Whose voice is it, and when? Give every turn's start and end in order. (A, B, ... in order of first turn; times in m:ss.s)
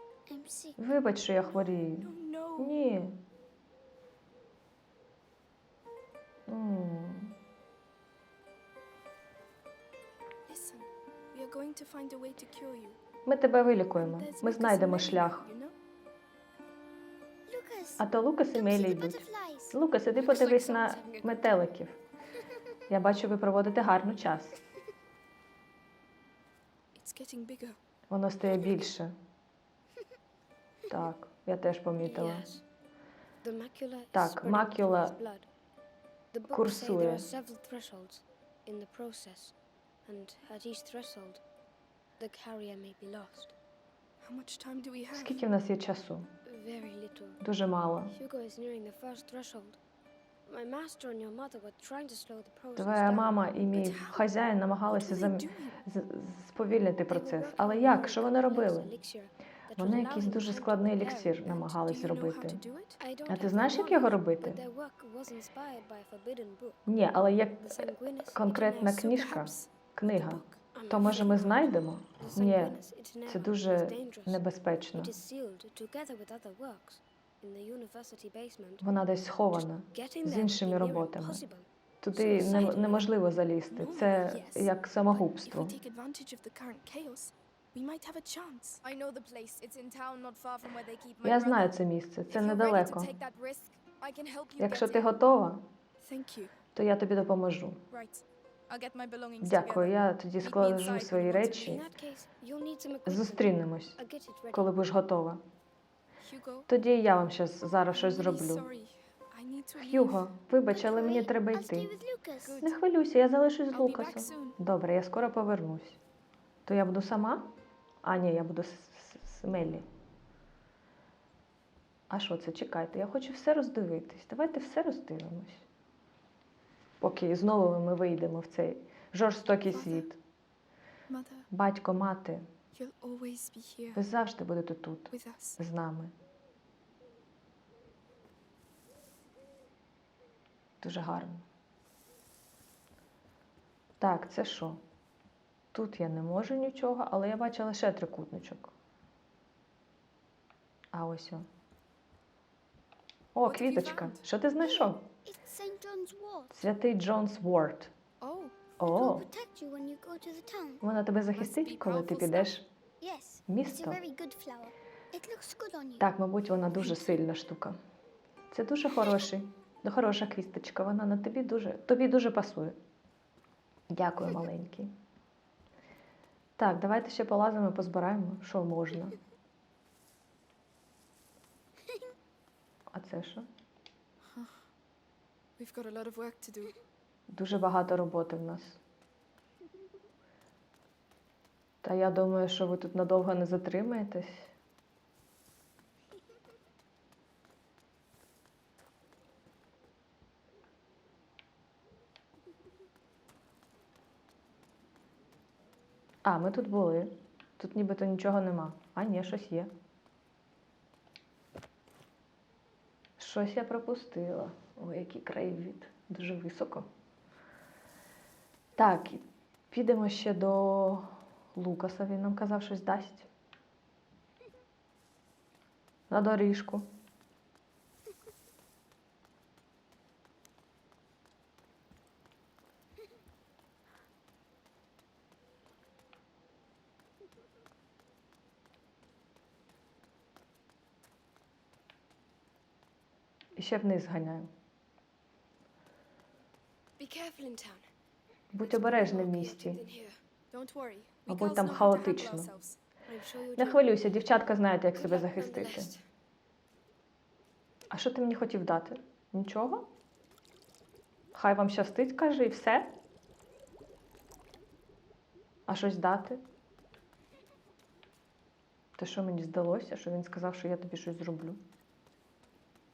0:00.3-0:00.8 A
0:00.8-0:03.2 B
0:02.0-0:02.8 C
0:06.5-0:07.4 B
0:10.4-0:13.0 C
0:13.2-0:15.5 B
0:14.0-0:15.8 C
0:17.5-0:19.8 A
0:18.0-0:22.0 B
0:20.2-0:21.0 C
0:20.9-0:21.6 D
0:22.9-0:24.6 B
0:26.9-0:27.8 C
0:28.1-0:29.1 B
0:30.9-0:32.5 B
0:32.0-0:32.6 D
0:33.4-0:35.5 D
0:34.1-0:35.2 B
0:36.3-0:39.5 D
0:36.5-0:37.3 B
0:40.0-0:41.4 D
0:42.2-0:43.5 D
0:44.2-0:45.4 C
0:45.1-0:46.3 B
0:46.4-0:47.4 D
0:47.4-0:48.2 B
0:48.1-0:49.8 D
0:50.4-0:53.5 D
0:52.8-0:58.9 B
0:53.7-0:54.3 C
0:54.9-0:55.8 C
0:57.1-1:01.4 D
0:59.7-1:02.6 B
1:01.4-1:03.0 C
1:03.0-1:06.9 D
1:03.3-1:04.6 B
1:06.9-1:15.1 B
1:07.6-1:09.0 D
1:08.9-1:11.6 C
1:10.7-1:18.8 D
1:18.8-1:21.4 B
1:19.5-1:21.7 D
1:22.0-1:25.8 B
1:22.2-1:22.9 C
1:22.7-1:23.0 D
1:23.7-1:35.1 C
1:31.2-1:33.1 B
1:34.6-1:35.6 B
1:36.0-1:36.5 C
1:36.7-1:37.8 B
1:37.9-1:41.8 C
1:39.4-1:41.8 B
1:41.6-1:44.7 D
1:43.0-1:44.0 B
1:44.5-1:45.4 B
1:46.2-1:46.7 C
1:46.7-1:48.7 B
1:47.9-1:50.2 C
1:49.8-1:51.9 B
1:50.7-1:52.6 A
1:52.4-1:52.7 C
1:52.6-1:56.0 B
1:53.7-1:54.6 C
1:56.6-1:57.5 B
1:58.0-1:59.8 B
2:02.1-2:05.6 B
2:07.0-2:10.2 B
2:09.6-2:10.1 C
2:11.1-2:11.5 C
2:11.5-2:12.4 B
2:12.7-2:14.0 C
2:13.9-2:16.1 B
2:15.1-2:15.6 C
2:20.8-2:21.4 B
2:24.0-2:24.8 B
2:25.7-2:28.7 B
2:30.9-2:31.4 B
2:33.3-2:35.1 B
2:33.4-2:34.2 C
2:34.6-2:36.5 A
2:36.5-2:37.9 B
2:38.2-2:38.6 C
2:38.8-2:39.3 B
2:38.8-2:40.8 A
2:40.8-2:42.6 B
2:41.3-2:42.6 C
2:43.0-2:46.1 A
2:43.5-2:44.0 B
2:46.0-2:47.8 B
2:48.5-2:52.8 B
2:53.9-2:54.9 B
2:56.6-2:59.2 B
3:02.9-3:03.4 B
3:04.3-3:04.6 C
3:05.6-3:06.8 C
3:07.3-3:08.8 B
3:11.8-3:14.5 B
3:26.2-3:29.7 B
3:33.2-3:36.9 B
3:38.8-3:43.3 B
3:46.1-3:46.9 B
4:03.6-4:04.5 B
4:07.0-4:07.9 D
4:08.5-4:09.8 B
4:08.6-4:10.2 D
4:10.5-4:12.8 C
4:11.3-4:12.5 B
4:13.0-4:14.0 D
4:13.5-4:15.9 B
4:15.0-4:16.0 D
4:17.9-4:19.9 B
4:21.3-4:22.9 B
4:25.7-4:26.4 B
4:29.0-4:31.6 B